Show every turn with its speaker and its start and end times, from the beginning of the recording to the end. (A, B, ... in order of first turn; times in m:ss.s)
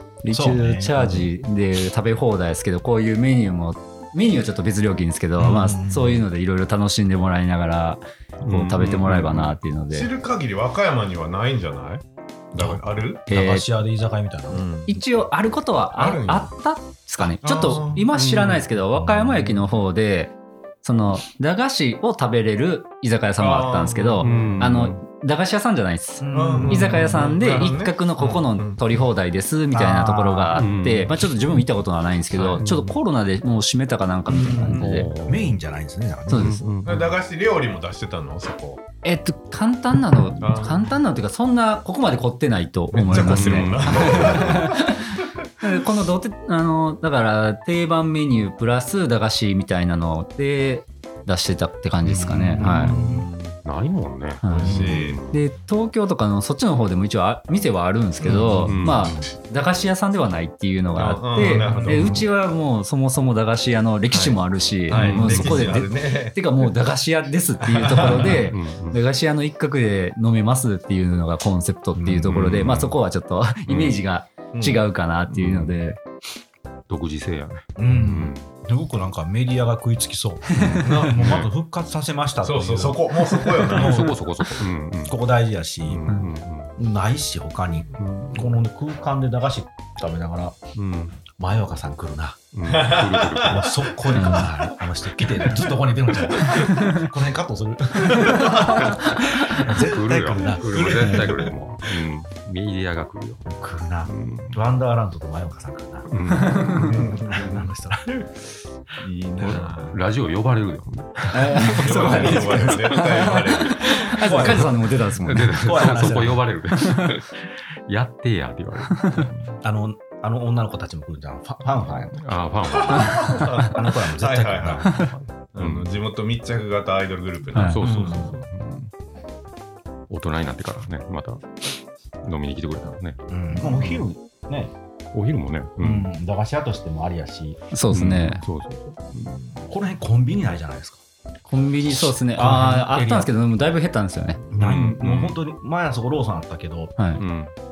0:00.2-0:10.1 A
0:00.3-0:01.2 B
0:05.4-0:06.3 B
0:08.4-0:09.6 C
0:09.9-0:13.2 D
0:12.6-0:14.6 B
0:13.3-0:13.7 A
0:14.5-0:15.0 D
0:14.9-0:35.1 A
0:16.0-0:16.5 D
0:17.4-0:18.1 D
0:18.1-0:18.6 C
0:19.0-0:19.6 B
0:23.4-0:24.6 D
0:24.2-0:25.0 C
0:24.3-0:24.6 B
0:26.2-0:27.1 B
0:26.3-0:28.8 D
0:29.7-0:30.7 B
0:30.5-0:31.1 C
0:32.6-0:33.0 C
0:34.3-0:36.6 B
0:34.7-0:35.5 C
0:36.3-0:36.7 A
0:36.3-0:37.1 C
0:36.8-0:38.8 D
0:39.0-0:52.9 A
0:40.4-0:41.0 D
0:42.9-0:44.8 D
0:43.1-0:44.7 C
0:52.0-0:53.3 B
0:52.6-0:53.6 D
0:53.6-0:55.4 C
0:54.4-1:16.0 A
0:54.4-0:55.2 D
0:54.6-0:55.0 B
0:58.2-0:59.0 B
0:58.7-0:59.1 C
1:00.9-1:02.2 D
1:01.6-1:02.2 B
1:04.1-1:04.4 D
1:04.9-1:06.7 D
1:04.9-1:05.6 C
1:04.9-1:05.8 B
1:07.6-1:08.4 D
1:07.9-1:09.0 C
1:12.0-1:13.0 C
1:13.7-1:14.0 C
1:14.5-1:14.8 D
1:15.3-1:15.8 C
1:16.9-1:18.5 C
1:17.8-1:24.2 B
1:20.6-1:21.0 A
1:20.8-1:21.4 D
1:21.1-1:21.5 C
1:22.4-1:24.1 D
1:23.7-1:25.2 C
1:25.0-1:26.1 B
1:25.9-1:26.7 C
1:26.8-1:30.6 B
1:28.0-1:28.6 C
1:30.8-1:31.2 C
1:31.3-1:32.4 B
1:32.5-1:33.9 C
1:32.7-1:33.7 D
1:33.4-1:41.5 B
1:34.2-1:34.5 A
1:36.5-1:37.1 A
1:38.2-1:38.7 A
1:38.3-1:38.9 D
1:38.9-1:43.5 C
1:40.8-1:41.4 D
1:43.5-1:48.3 B
1:44.0-1:44.6 C
1:46.1-1:46.9 C
1:46.4-1:46.9 A
1:46.8-1:47.7 D
1:49.0-1:50.0 D
1:49.4-1:59.6 C
1:51.3-1:55.8 A
1:51.4-1:52.8 B
1:51.6-1:54.7 D
1:54.2-1:54.7 B
1:55.4-1:56.5 B
1:56.8-1:57.1 A
1:59.0-1:59.3 A
1:59.6-2:02.3 B
2:02.1-2:03.5 C
2:02.7-2:08.3 D
2:03.0-2:05.0 B
2:04.8-2:05.9 C
2:07.5-2:07.8 A
2:07.6-2:08.9 C
2:07.8-2:08.4 B
2:10.1-2:11.7 C
2:12.2-2:14.1 C
2:13.3-2:14.7 B
2:15.1-2:16.1 C
2:15.8-2:17.6 B
2:17.7-2:18.4 A
2:17.9-2:19.6 C
2:19.7-2:21.0 B
2:21.5-2:24.4 A
2:22.0-2:23.3 B
2:24.5-2:27.0 B
2:24.6-2:25.4 C
2:27.2-2:27.5 C